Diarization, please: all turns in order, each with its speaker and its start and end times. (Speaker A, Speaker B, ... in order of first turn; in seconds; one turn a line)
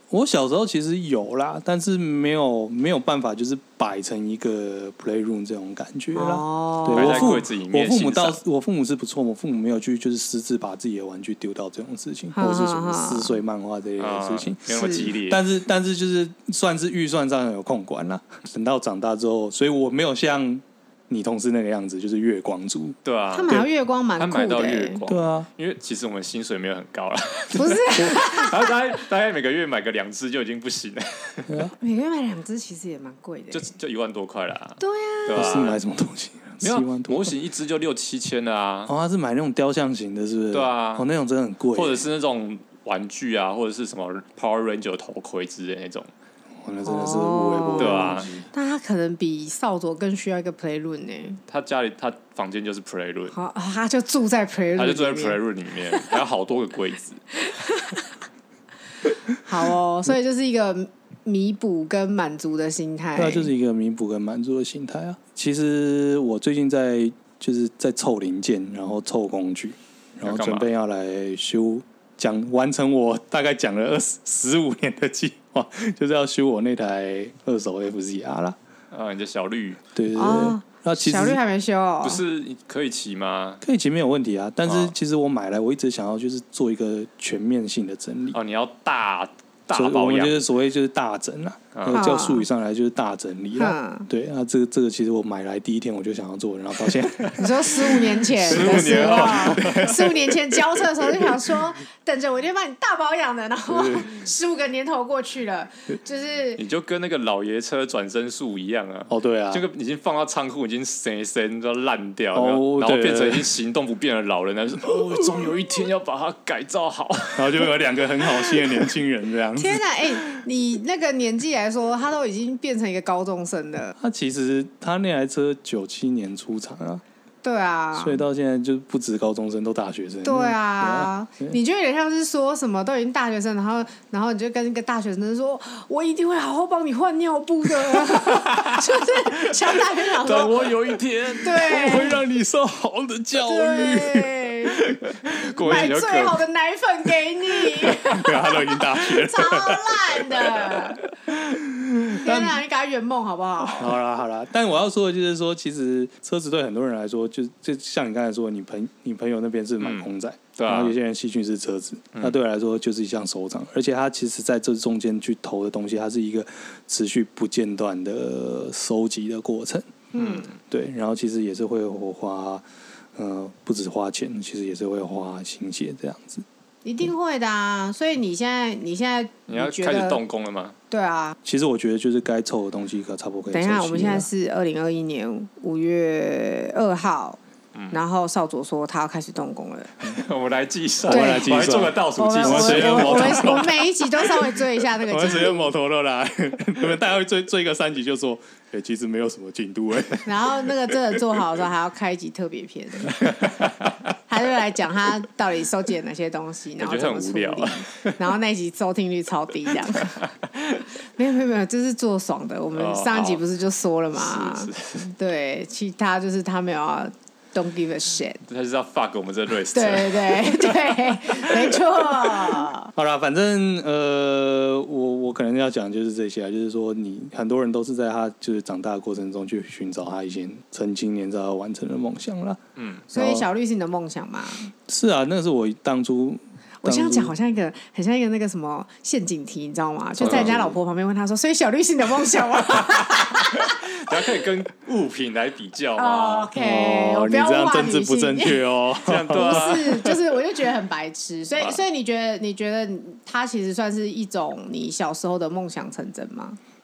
Speaker A: 0.1-22.9
Speaker B: 6.1-7.4
Speaker C: 6.9-8.4
Speaker B: 12.3-13.4
Speaker C: 14.0-15.4
Speaker B: 14.7-15.1
Speaker C: 23.0-31.6
Speaker B: 23.3-25.0
Speaker A: 25.1-25.5
Speaker B: 27.5-28.8
Speaker A: 31.5-31.7
Speaker B: 31.8-33.7
Speaker C: 33.5-35.8
Speaker B: 34.8-35.7
Speaker A: 35.3-37.3
Speaker C: 36.6-38.9
Speaker A: 38.9-42.0
Speaker C: 40.5-41.1
Speaker C: 41.7-46.1
Speaker A: 46.6-48.5
Speaker B: 46.8-51.4
Speaker C: 47.8-48.4
Speaker C: 51.5-53.3
Speaker B: 53.3-55.4
Speaker C: 54.8-57.2
Speaker B: 57.3-58.1
Speaker B: 59.4-63.5
Speaker A: 63.1-78.5
Speaker C: 70.2-70.7
Speaker C: 78.9-79.8
Speaker A: 79.9-81.4
Speaker B: 80.1-82.2
Speaker C: 82.0-83.6
Speaker A: 83.6-88.4
Speaker C: 84.7-84.9
Speaker C: 88.3-90.4
Speaker A: 89.7-100.0
Speaker C: 91.7-92.0
Speaker B: 91.9-92.5
Speaker B: 93.5-94.1
Speaker B: 97.4-106.6
Speaker C: 98.2-100.3
Speaker A: 103.7-104.1
Speaker C: 106.6-118.9
Speaker A: 109.1-109.7
Speaker A: 112.3-113.5
Speaker A: 114.8-115.6
Speaker A: 117.3-119.8
Speaker B: 119.6-124.0
Speaker A: 124.0-127.0
Speaker B: 127.4-128.2
Speaker A: 127.9-131.6
Speaker B: 130.2-140.7
Speaker C: 138.3-138.8
Speaker C: 140.2-142.2
Speaker B: 141.4-142.2
Speaker A: 141.6-145.0
Speaker B: 143.4-144.8
Speaker C: 145.1-146.4
Speaker B: 145.6-151.0
Speaker A: 147.8-152.6
Speaker B: 152.2-153.9
Speaker A: 153.8-169.9
Speaker C: 159.8-160.9
Speaker B: 170.1-170.5
Speaker C: 170.2-170.5
Speaker A: 170.6-172.6
Speaker A: 173.2-176.4
Speaker B: 176.8-180.2
Speaker C: 179.5-180.8
Speaker B: 180.9-181.3
Speaker A: 181.4-184.3
Speaker B: 183.5-187.4
Speaker C: 187.7-188.0
Speaker B: 187.9-189.9
Speaker C: 190.0-193.8
Speaker A: 191.0-193.8
Speaker B: 191.1-195.7
Speaker A: 195.0-201.4
Speaker B: 200.2-203.5
Speaker C: 203.3-204.0
Speaker B: 204.3-210.2
Speaker C: 206.8-208.4
Speaker C: 209.8-210.8
Speaker B: 211.2-218.4
Speaker C: 212.7-213.4
Speaker C: 214.1-215.1
Speaker C: 218.4-221.8
Speaker B: 219.7-222.9
Speaker A: 222.9-233.5
Speaker C: 232.8-233.0
Speaker B: 233.1-234.7
Speaker A: 234.7-237.3
Speaker B: 236.8-243.8
Speaker A: 240.2-240.8
Speaker C: 240.2-240.5
Speaker C: 243.3-246.5
Speaker B: 245.9-248.6
Speaker A: 246.5-249.8
Speaker C: 249.0-250.3
Speaker B: 249.3-256.6